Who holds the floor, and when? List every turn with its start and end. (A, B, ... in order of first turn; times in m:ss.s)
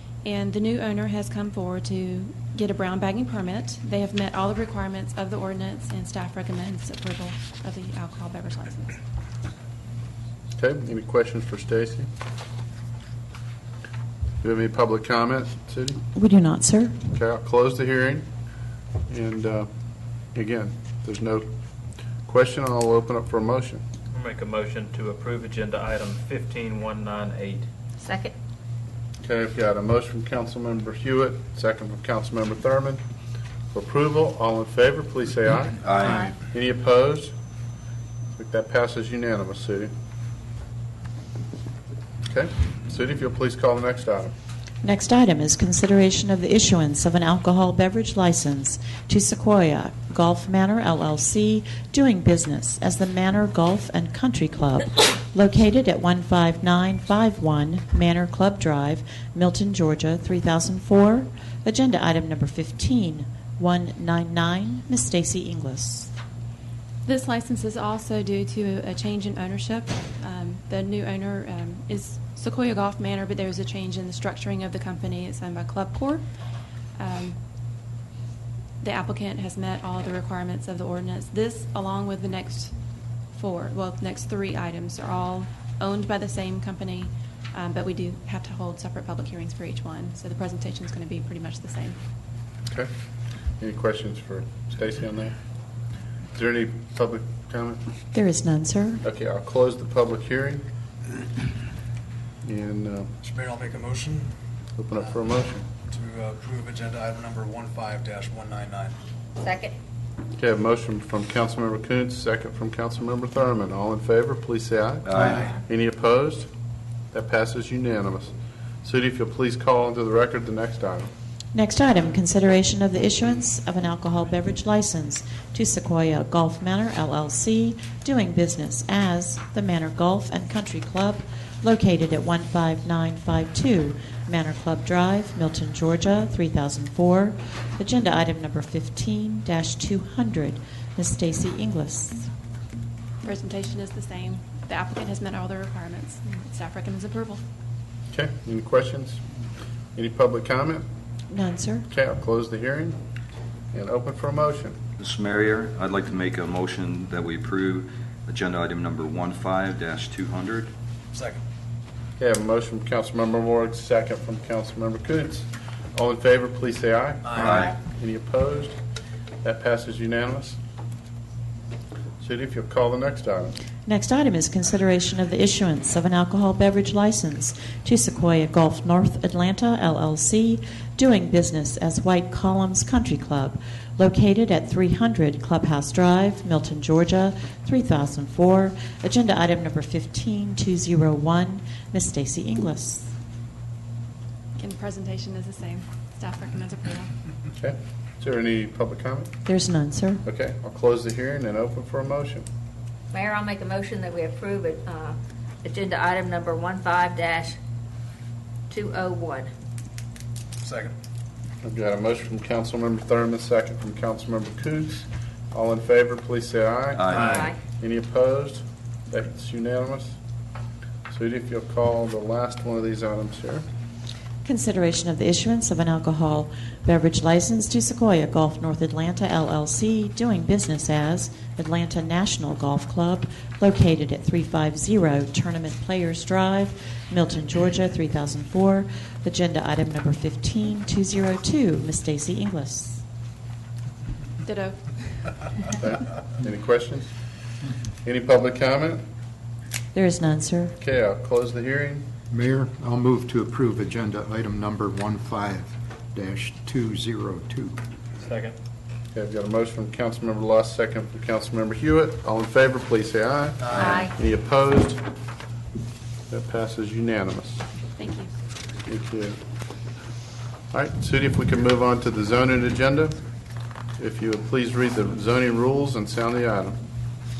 0:00.2-0:09.0 A
0:10.6-0:12.1 B
0:14.4-0:16.0 B
0:16.1-0:17.0 C
0:17.1-0:18.2 B
0:19.1-0:19.7 B
0:20.3-0:21.5 B
0:22.3-0:23.8 B
0:24.2-0:27.6 D
0:28.0-0:28.4 E
0:29.2-0:33.0 B
0:33.7-0:37.3 B
0:35.8-0:36.2 F
0:38.4-0:39.9 B
0:42.3-0:44.3 B
0:44.8-1:06.1 C
1:07.1-1:16.2 A
1:17.0-1:17.4 A
1:18.8-1:22.7 A
1:23.3-1:32.0 A
1:33.6-1:35.3 B
1:36.3-1:37.8 B
1:38.1-1:39.0 C
1:39.0-1:40.6 B
1:42.4-1:43.1 B
1:43.2-1:44.3 G
1:44.8-1:45.6 B
1:45.9-1:49.0 G
1:49.4-1:49.8 E
1:50.4-1:56.5 B
1:55.0-1:55.4 F
1:55.2-1:55.5 G
1:57.1-1:58.3 B
1:58.8-2:01.1 B
2:01.5-2:22.2 C
2:23.2-2:27.4 A
2:28.1-2:29.2 B
2:29.9-2:30.8 B
2:31.3-2:31.9 C
2:31.9-2:33.0 B
2:33.7-2:34.8 B
2:35.0-2:40.7 F
2:41.1-2:41.4 G
2:42.2-2:48.8 B
2:47.2-2:47.6 G
2:47.4-2:47.7 F
2:49.4-2:50.6 B
2:52.2-2:53.6 B
2:53.8-3:13.1 C
3:14.6-3:17.1 A
3:17.6-3:19.3 B
3:19.4-3:20.2 C
3:20.2-3:22.4 B
3:23.1-3:27.6 E
3:28.7-3:29.5 E
3:30.6-3:30.9 G
3:31.6-3:40.1 B
3:36.9-3:37.4 F
3:37.1-3:37.5 G
3:37.2-3:37.6 E
3:41.1-3:43.6 B
3:44.4-4:03.0 C
4:04.4-4:04.8 A
4:05.8-4:07.1 B
4:08.0-4:09.0 B
4:09.9-4:10.8 C
4:10.8-4:12.1 B
4:12.3-4:17.8 H
4:19.1-4:25.0 B
4:23.6-4:24.0 G
4:23.8-4:24.1 E
4:26.3-4:27.6 B
4:28.0-4:28.3 A
4:28.8-4:29.4 B
4:30.7-4:33.2 B
4:34.0-4:36.8 B